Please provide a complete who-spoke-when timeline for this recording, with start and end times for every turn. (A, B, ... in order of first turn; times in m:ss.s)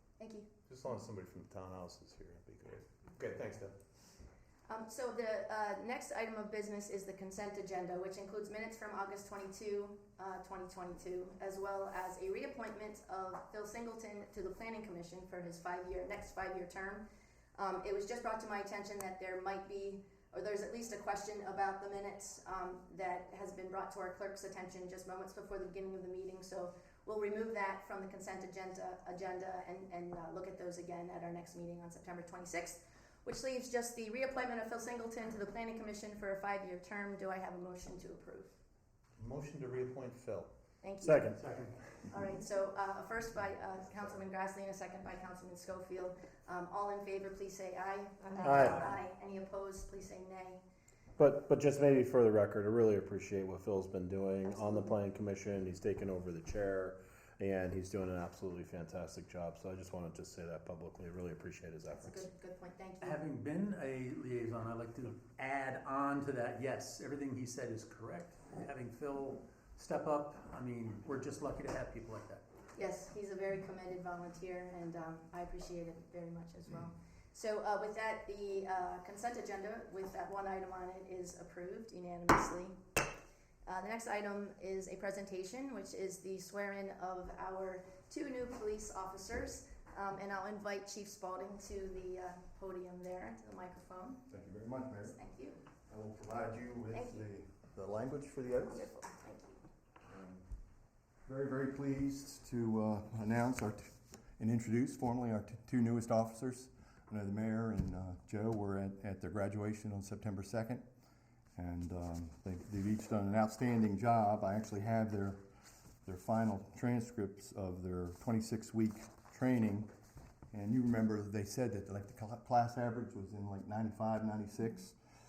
0:00.2-0:00.5 A
0:00.7-0:03.7 B
0:04.7-0:17.0 A
0:17.6-0:38.6 A
0:39.2-0:40.5 B
0:40.8-0:41.3 A
0:41.0-0:41.4 C
0:41.4-0:41.7 D
0:42.1-0:50.6 A
0:48.4-0:48.8 C
0:51.2-1:02.3 C
1:01.9-1:03.2 A
1:03.0-1:12.4 D
1:12.8-1:22.7 A
1:23.6-1:34.2 A
1:34.3-1:35.2 E
1:35.0-1:35.6 A
1:35.9-1:38.9 E
1:36.9-1:37.3 A
1:38.6-1:39.6 A
1:40.1-1:40.4 E
1:41.3-1:50.8 E
1:51.6-1:55.4 E
1:56.0-1:59.9 E
2:00.5-2:04.9 E